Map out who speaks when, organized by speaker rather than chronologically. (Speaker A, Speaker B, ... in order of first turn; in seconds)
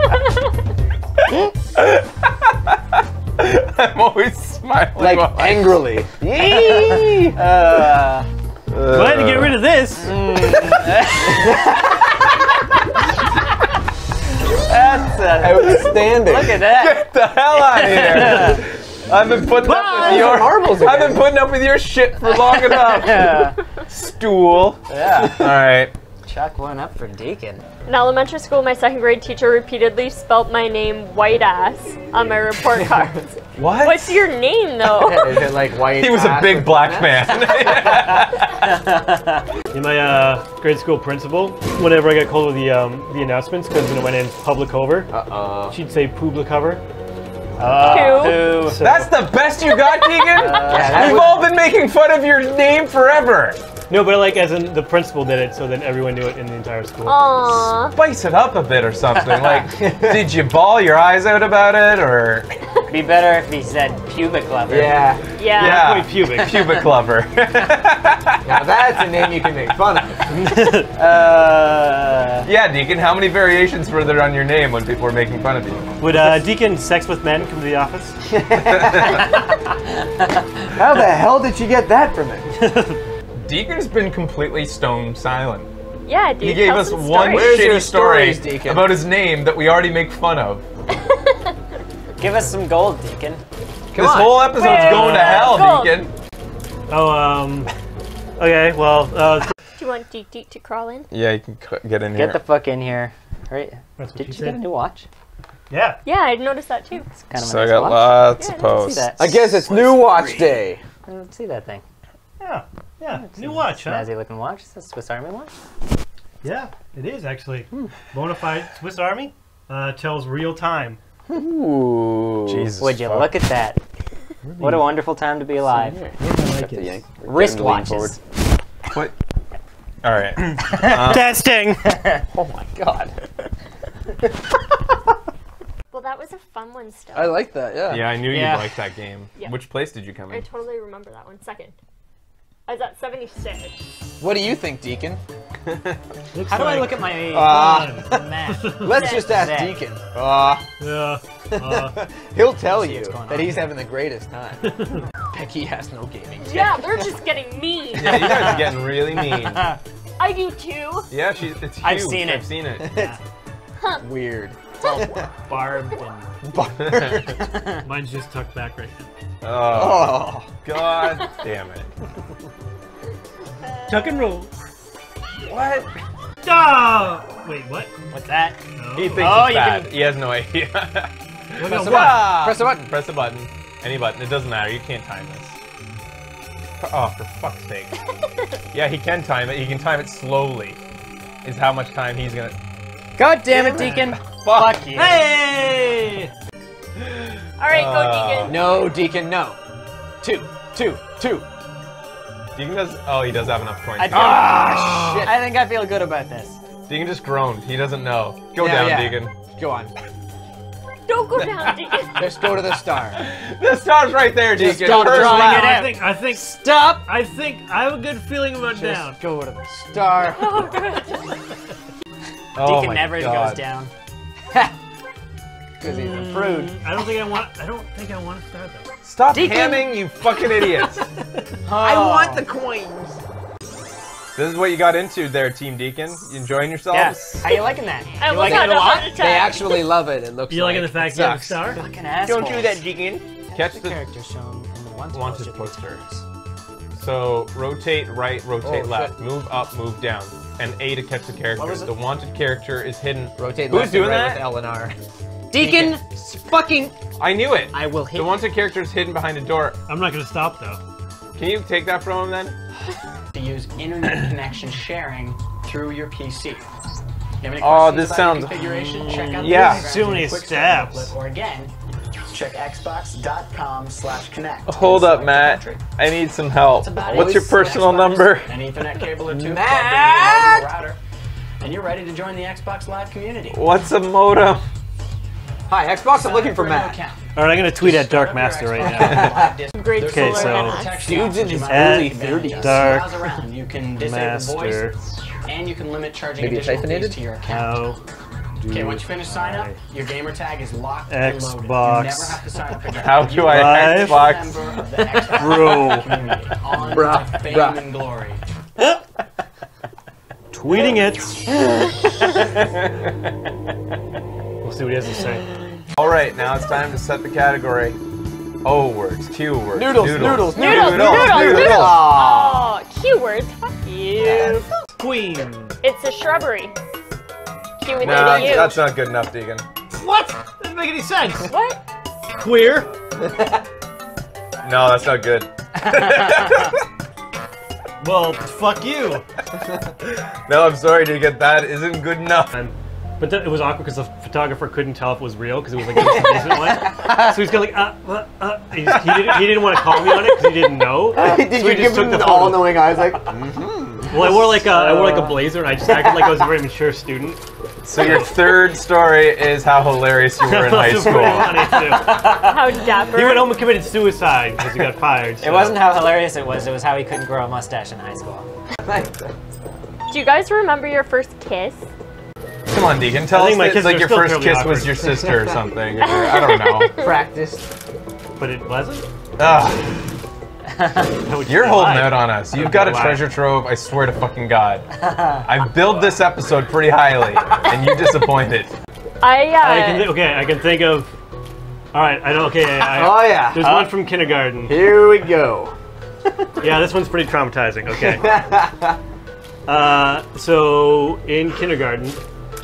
Speaker A: 1.3-5.8, 8.7-9.6, 16.6-24.8, 25.4-25.9, 33.6-34.3, 35.9-38.8, 48.8-53.6, 58.0-62.5, 65.5-68.7, 72.5-75.9, 78.6-79.3, 83.4-85.7, 86.4-90.7, 93.9-96.1, 101.1-102.4, 107.3-109.1, 122.5-123.3, 130.0-131.4, 137.9-140.5, 145.7-146.0, 157.9-159.8, 161.1-162.9, 166.8-167.3, 169.4-171.9, 175.4-175.9, 178.9-185.6, 186.8-187.9, 188.7-190.8, 191.4-192.6, 193.5-194.9, 197.0-198.7, 202.6-205.0, 206.9-209.3, 211.4-212.2, 213.1-215.8, 222.6-223.6, 229.0-231.0, 234.4-237.5, 242.2-244.0, 245.1-246.0, 247.0-254.5, 257.2-259.8, 261.4-262.6, 267.6-268.6, 269.4-269.9, 274.7-278.6, 283.5-284.6, 302.9-304.6, 316.0-318.0, 318.6-322.1, 328.0-329.7, 334.6-336.8, 340.1-342.5, 357.8-361.7, 372.7-376.9, 379.4-380.1, 381.5-384.9, 385.4-388.7
Speaker B: 5.0-7.4, 11.3-12.1, 15.4-16.6, 19.9-21.3, 24.9-25.4, 32.7-33.2, 35.0-38.1, 45.1-45.8, 50.7-51.5, 59.6-60.3, 64.7-65.2, 68.5-70.4, 70.9-72.3, 78.3-79.5, 80.7-82.5, 87.2-89.0, 94.0-94.8, 109.2-110.8, 121.3-122.7, 125.6-128.2, 132.3-133.3, 137.1-138.2, 144.2-145.2, 147.3-148.2, 148.8-150.7, 151.5-157.1, 162.8-163.2, 164.0-165.3, 166.4-167.4, 169.7-170.5, 181.6-182.9, 198.4-199.6, 200.2-201.5, 204.1-205.4, 208.6-209.9, 212.2-213.3, 214.6-215.0, 218.8-220.7, 225.8-226.8, 231.7-233.2, 239.2-241.8, 248.6-249.2, 253.4-255.0, 255.5-256.9, 277.1-277.8, 279.2-280.7, 285.7-287.0, 288.8-289.6, 291.0-293.1, 296.4-297.2, 306.9-307.8, 319.7-322.7, 324.2-324.6, 328.1-328.5, 346.0-346.8, 351.1-354.8, 355.9-356.4, 368.8-369.3, 377.0-377.7, 392.6-394.0, 394.7-395.8, 397.9-399.0
Speaker C: 6.6-8.3, 10.0-11.6, 14.7-18.6, 22.3-23.6, 24.9-25.4, 26.3-27.6, 38.9-39.4, 47.6-49.0, 50.3-51.4, 59.4-59.6, 62.9-65.1, 92.2-93.4, 102.1-105.1, 107.2-109.5, 111.1-111.8, 113.1-115.5, 122.8-123.8, 124.6-126.0, 127.2-128.2, 130.6-132.2, 138.3-138.8, 146.5-149.8, 152.7-153.8, 158.1-158.8, 159.3-159.8, 161.8-162.5, 178.1-178.6, 179.1-180.0, 193.2-195.3, 204.0-206.6, 214.6-217.0, 222.6-223.9, 229.3-230.0, 231.7-232.5, 236.9-239.2, 241.8-242.9, 243.4-246.2, 251.6-251.9, 255.5-256.9, 257.7-258.4, 354.7-355.4, 361.2-362.6, 365.4-368.5, 380.8-381.1, 385.1-385.5
Speaker D: 8.9-10.2, 19.7-20.1, 39.7-45.1, 45.7-46.8, 47.9-49.1, 53.9-57.4, 65.6-66.8, 70.3-70.9, 76.0-78.2, 82.6-83.0, 96.9-97.7, 98.4-99.5, 104.0-104.6, 105.7-106.0, 112.4-114.1, 116.4-121.0, 124.4-125.0, 126.2-127.0, 130.7-131.8, 146.3-148.9, 150.8-152.0, 154.6-155.1, 162.9-163.2, 165.5-166.3, 167.8-169.1, 173.9-174.5, 176.4-177.9, 178.8-179.3, 181.6-182.4, 195.0-196.3, 214.9-219.2, 225.9-228.9, 240.5-241.8, 259.9-260.8, 268.6-271.1, 287.4-289.5, 290.0-290.9, 291.6-293.4, 293.9-295.0, 297.4-298.0, 298.6-299.8, 301.1-302.4, 303.4-304.3, 305.1-306.3, 310.5-311.5, 314.6-315.5, 325.0-325.8, 330.0-331.5, 332.4-332.9, 338.0-339.2, 342.5-352.8, 354.1-357.4, 358.0-358.3, 360.4-362.5, 363.1-365.9, 373.3-375.3, 378.4-379.1, 381.2-383.3, 389.6-391.2, 391.9-394.9, 396.6-398.5, 399.7-402.2
Speaker E: 27.9-35.5, 47.8-48.6, 57.0-58.0, 65.4-65.9, 86.1-87.6, 91.1-91.5, 94.5-96.1, 99.8-101.1, 106.0-107.1, 108.4-108.8, 135.9-137.5, 139.4-139.7, 140.3-141.7, 142.7-143.8, 148.9-149.5, 156.4-158.6, 160.2-161.1, 163.8-164.1, 197.6-198.7, 211.1-212.6, 220.3-221.3, 238.2-239.9, 289.7-291.2, 320.5-324.7, 325.8-326.8, 327.8-328.9, 331.5-331.8, 362.2-363.6, 370.1-371.9, 375.9-377.2, 389.2-390.2
Speaker F: 263.3-266.7, 267.4-271.7, 272.3-275.9, 276.8-281.0, 281.6-283.7, 286.1-294.9, 295.5-297.8, 298.7-308.4